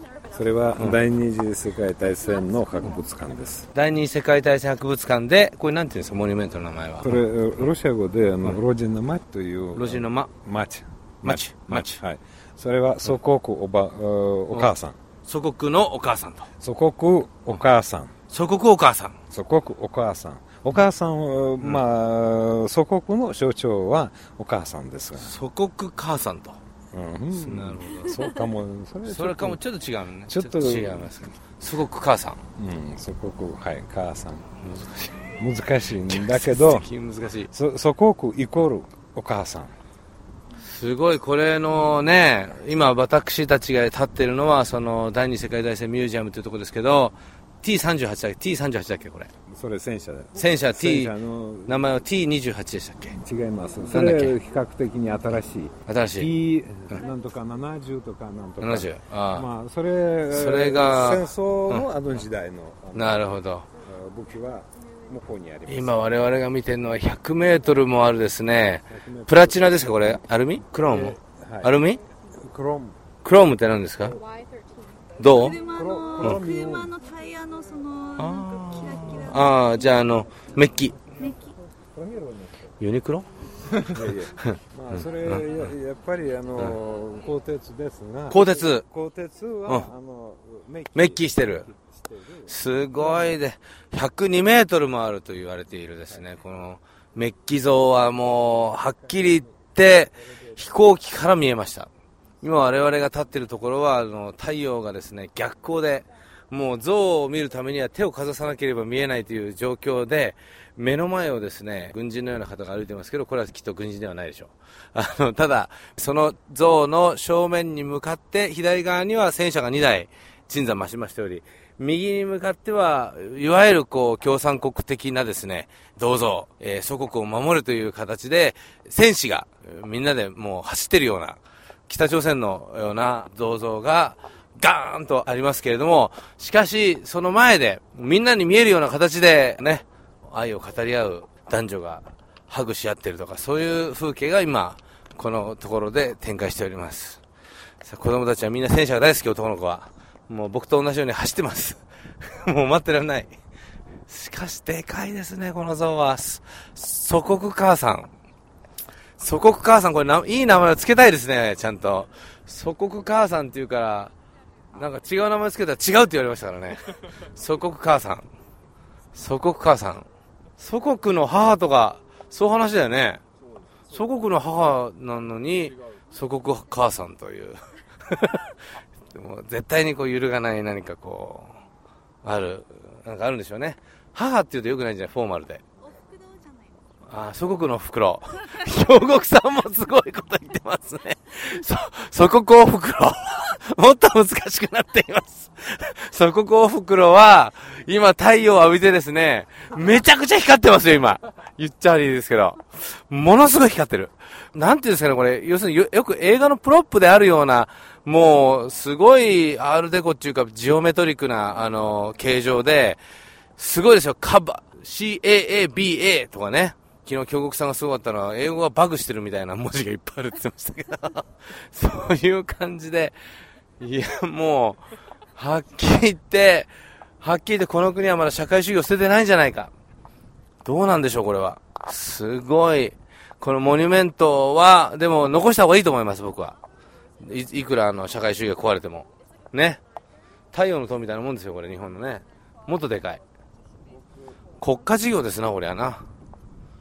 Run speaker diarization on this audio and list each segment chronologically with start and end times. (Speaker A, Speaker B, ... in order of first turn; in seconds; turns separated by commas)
Speaker A: 0.3-3.7, Speaker B: 0.8-1.0, Speaker B: 3.7-7.7, Speaker A: 7.0-15.0, Speaker B: 9.8-10.3, Speaker B: 11.2-12.0, Speaker B: 15.3-16.5, Speaker A: 16.6-18.1, Speaker B: 18.3-19.2, Speaker A: 19.3-25.3, Speaker B: 25.2-26.6, Speaker A: 26.9-29.6, Speaker B: 27.3-28.3, Speaker B: 29.1-32.4, Speaker A: 30.3-31.1, Speaker A: 32.6-34.5, Speaker B: 34.6-35.3, Speaker A: 35.4-36.9, Speaker B: 36.0-37.5, Speaker A: 37.5-39.7, Speaker B: 40.6-49.3, Speaker A: 49.5-51.9, Speaker B: 50.4-51.1, Speaker B: 51.7-53.2, Speaker A: 53.2-63.3, Speaker B: 53.9-54.4, Speaker B: 55.9-56.3, Speaker B: 58.6-59.5, Speaker B: 60.3-61.9, Speaker B: 62.9-63.7, Speaker A: 63.8-66.3, Speaker B: 65.7-72.0, Speaker A: 68.8-70.2, Speaker A: 70.8-71.7, Speaker A: 72.3-73.0, Speaker B: 73.2-74.2, Speaker B: 75.2-75.6, Speaker C: 75.5-79.6, Speaker A: 75.6-77.0, Speaker B: 78.2-81.0, Speaker C: 81.2-81.5, Speaker A: 81.2-82.7, Speaker B: 82.8-83.3, Speaker A: 83.8-93.4, Speaker B: 84.0-85.5, Speaker B: 88.3-88.8, Speaker B: 90.9-91.7, Speaker B: 92.5-101.9, Speaker B: 102.4-147.2, Speaker B: 147.8-153.3, Speaker B: 154.1-158.1, Speaker B: 159.2-164.1, Speaker B: 164.7-168.3, Speaker B: 169.1-170.1, Speaker B: 170.6-173.2, Speaker B: 173.9-178.6, Speaker B: 179.1-181.5, Speaker B: 182.2-185.6, Speaker C: 185.9-186.8, Speaker B: 187.1-213.0, Speaker B: 213.6-223.2, Speaker B: 223.8-224.8, Speaker B: 225.3-229.7, Speaker B: 230.6-236.6, Speaker B: 237.2-239.8, Speaker B: 240.5-243.2, Speaker B: 244.6-246.0